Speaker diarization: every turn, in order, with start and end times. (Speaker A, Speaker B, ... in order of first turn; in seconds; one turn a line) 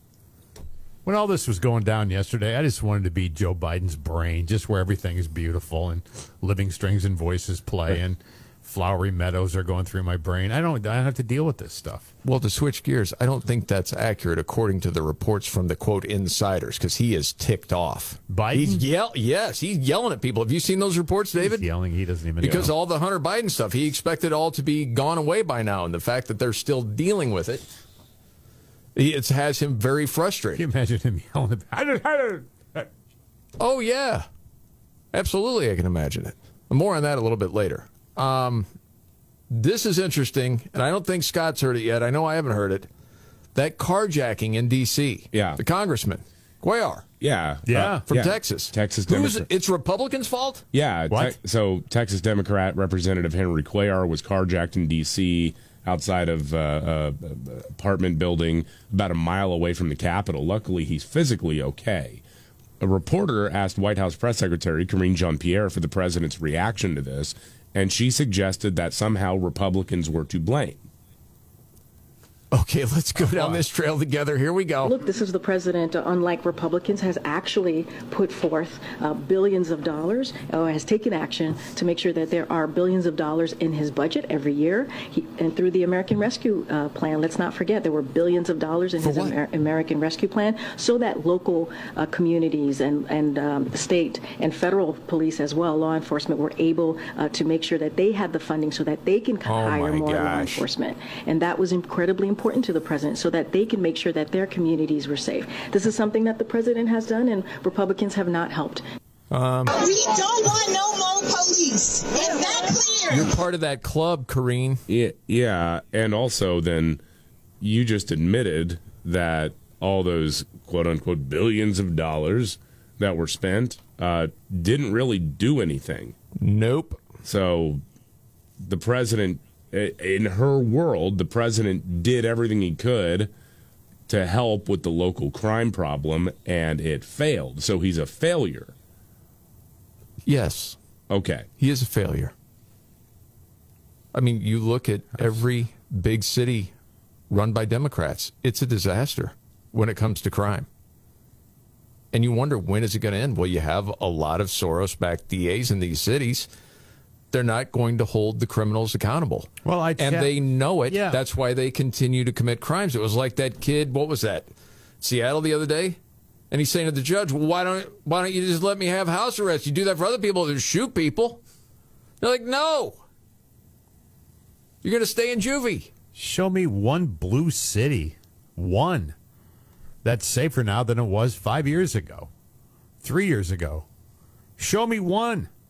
Speaker A: 1.0-12.1
Speaker B: 12.2-21.7
Speaker A: 18.3-18.8
Speaker A: 21.4-22.7
Speaker B: 22.4-27.6
Speaker B: 28.9-30.6
Speaker A: 30.6-32.9
Speaker B: 33.6-34.3
Speaker B: 35.1-38.7
Speaker B: 39.5-42.9
Speaker B: 43.5-47.0
Speaker C: 45.3-45.6
Speaker C: 47.2-49.5
Speaker A: 47.7-48.0
Speaker B: 48.1-50.6
Speaker C: 50.7-62.2
Speaker A: 51.1-51.4
Speaker C: 62.8-70.8
Speaker B: 72.5-75.0
Speaker D: 74.8-108.8
Speaker B: 89.0-89.4
Speaker B: 99.4-100.6
Speaker B: 109.3-109.8
Speaker E: 109.7-113.3
Speaker B: 113.1-114.8
Speaker C: 114.9-117.0
Speaker C: 117.6-126.1
Speaker B: 126.4-127.0
Speaker C: 127.2-127.8
Speaker C: 128.6-133.3
Speaker C: 134.1-138.7
Speaker B: 140.2-140.8
Speaker C: 141.1-141.5
Speaker B: 141.6-142.3
Speaker B: 144.1-146.7
Speaker B: 147.3-150.7
Speaker B: 152.1-156.5
Speaker B: 157.3-164.5
Speaker A: 159.6-161.2
Speaker B: 165.0-166.0
Speaker B: 166.5-171.4
Speaker B: 172.2-173.0
Speaker B: 174.8-175.9
Speaker A: 176.1-179.2
Speaker A: 180.0-182.3
Speaker A: 183.0-183.8
Speaker A: 184.6-185.5